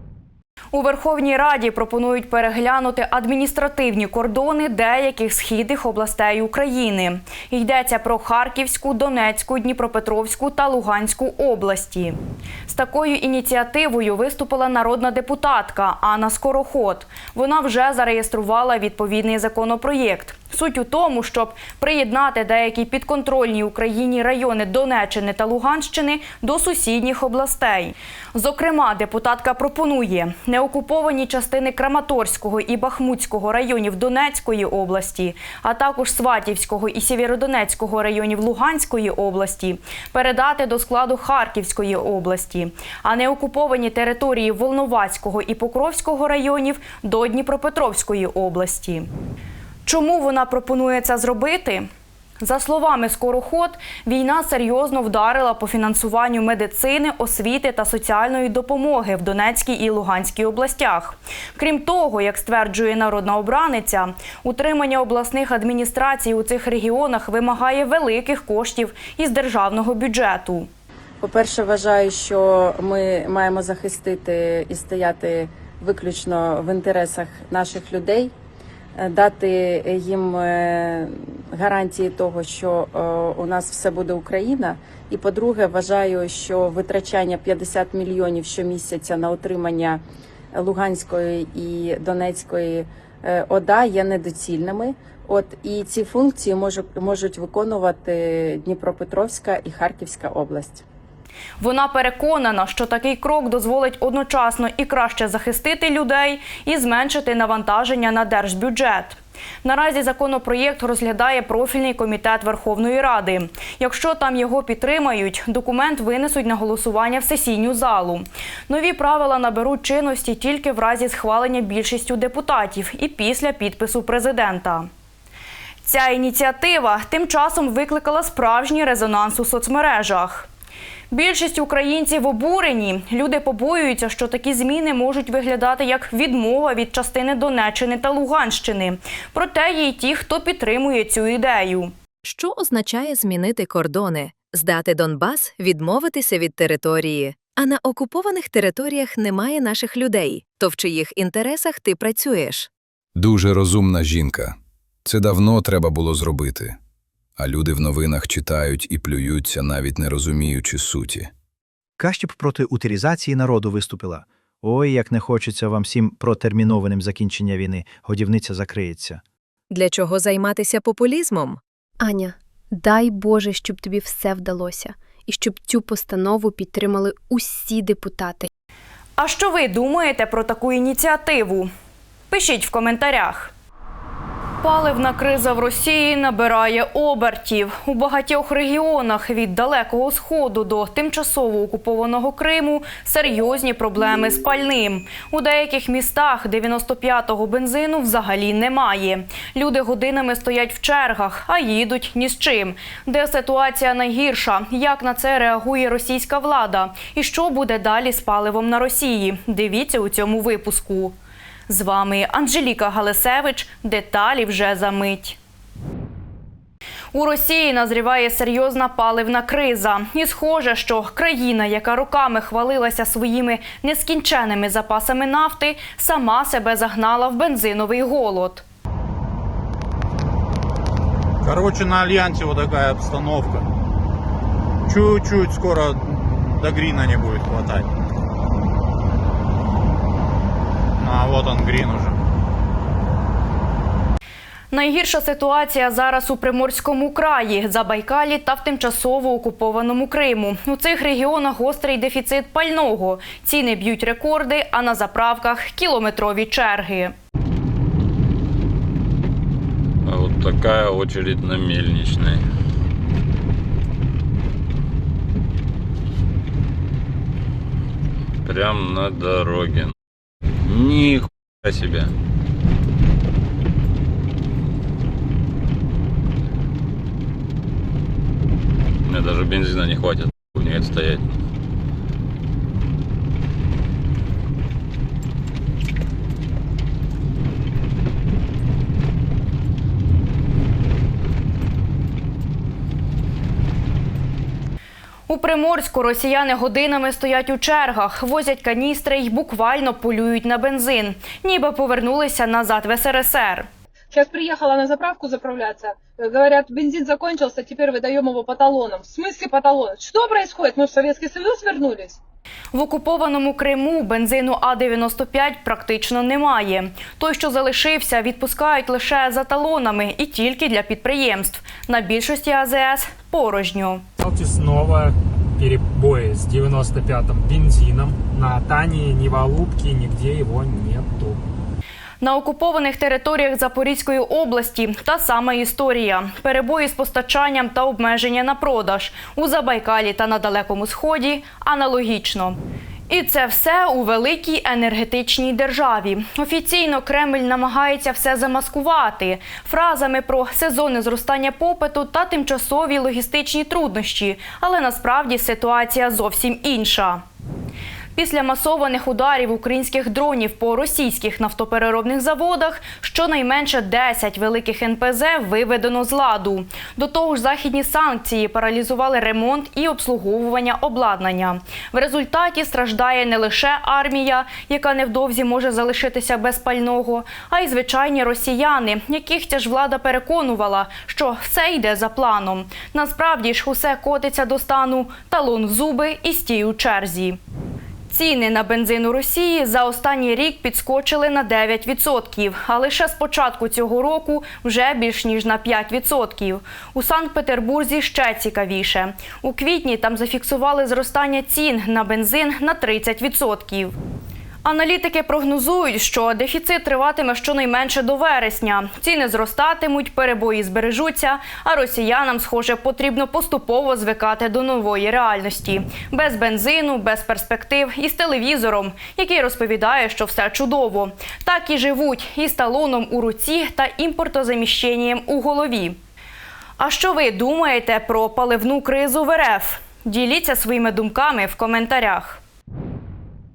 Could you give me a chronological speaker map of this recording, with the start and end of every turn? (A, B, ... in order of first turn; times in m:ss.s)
0:00.7-0:12.2 A
0:12.7-0:49.1 A
0:49.8-0:51.9 A
0:52.4-1:10.7 A
1:11.2-1:18.3 B
1:19.0-1:30.0 B
1:30.5-1:40.8 B
1:41.6-2:04.9 A
2:05.8-2:10.5 A
2:11.1-2:21.9 A
2:22.2-2:32.7 C
2:33.2-2:36.8 D
2:37.4-2:41.3 D
2:42.0-2:49.2 E
2:49.7-2:51.6 C
2:52.0-2:58.5 F
2:59.2-3:01.7 A
3:02.3-3:03.5 A
3:04.6-3:31.2 A
3:31.7-3:35.4 A
3:37.1-3:48.6 A
3:51.4-3:53.7 G
3:54.9-3:57.9 G
4:01.0-4:02.2 G
4:04.7-4:17.1 A
4:20.1-4:22.4 H
4:28.4-4:29.9 H
4:30.6-4:32.1 H
4:39.0-4:41.4 H
4:55.3-5:03.7 A
5:04.1-5:12.2 I
5:12.7-5:24.0 A
5:24.2-5:31.4 J
5:32.2-5:42.6 A
5:43.1-5:57.2 A
5:58.2-6:27.4 A
6:28.1-6:44.0 A
6:44.6-7:06.0 A
7:06.8-7:12.4 A